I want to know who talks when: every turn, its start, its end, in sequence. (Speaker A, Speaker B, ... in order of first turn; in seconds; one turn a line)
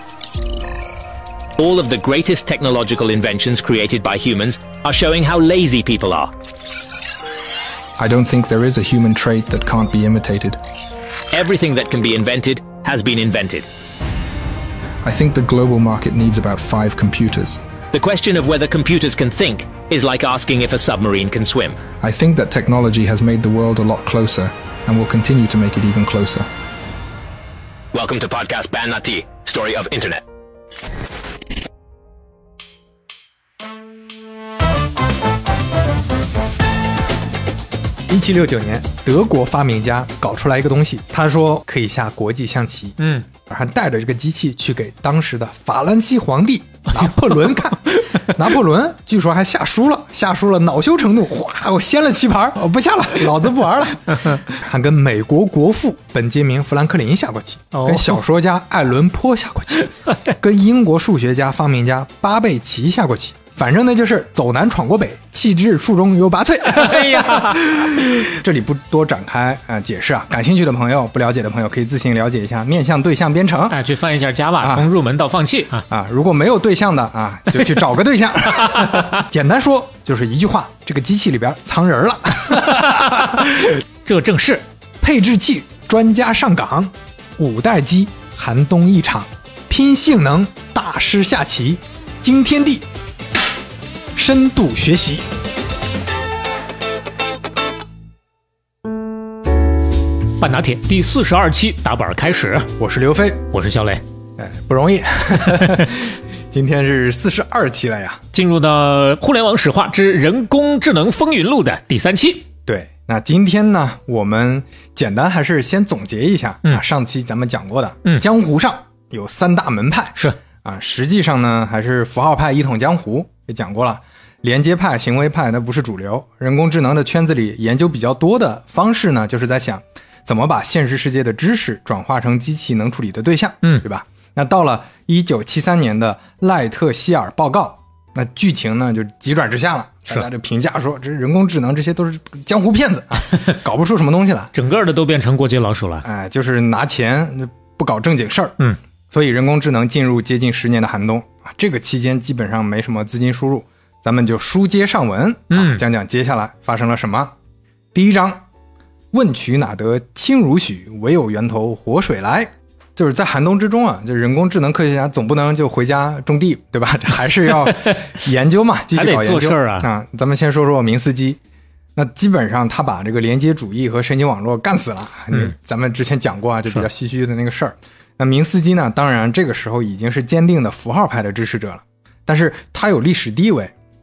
Speaker A: 1.6-6.3
Speaker B: 8.0-10.6
Speaker A: 11.3-13.7
Speaker B: 15.0-17.6
Speaker A: 17.9-21.8
Speaker B: 22.0-26.5
Speaker A: 27.9-30.2
Speaker C: 38.1-73.8
Speaker D: 43.0-43.3
Speaker D: 47.0-47.7
Speaker D: 57.7-58.2
Speaker D: 66.7-67.7
Speaker D: 73.7-75.8
Speaker C: 74.6-74.9
Speaker C: 75.9-83.7
Speaker D: 78.6-79.2
Speaker D: 82.5-84.6
Speaker C: 85.0-92.8
Speaker C: 94.2-95.3
Speaker D: 100.4-102.7
Speaker C: 102.8-103.4
Speaker D: 103.5-104.0
Speaker C: 104.4-108.2
Speaker D: 105.5-105.8
Speaker D: 108.3-112.5
Speaker C: 112.7-144.5
Speaker D: 144.5-146.1
Speaker C: 146.0-148.6
Speaker C: 149.1-157.3
Speaker D: 155.5-155.8
Speaker C: 157.9-158.4
Speaker C: 159.1-171.4
Speaker D: 167.6-168.0
Speaker D: 168.9-169.9
Speaker C: 172.0-183.7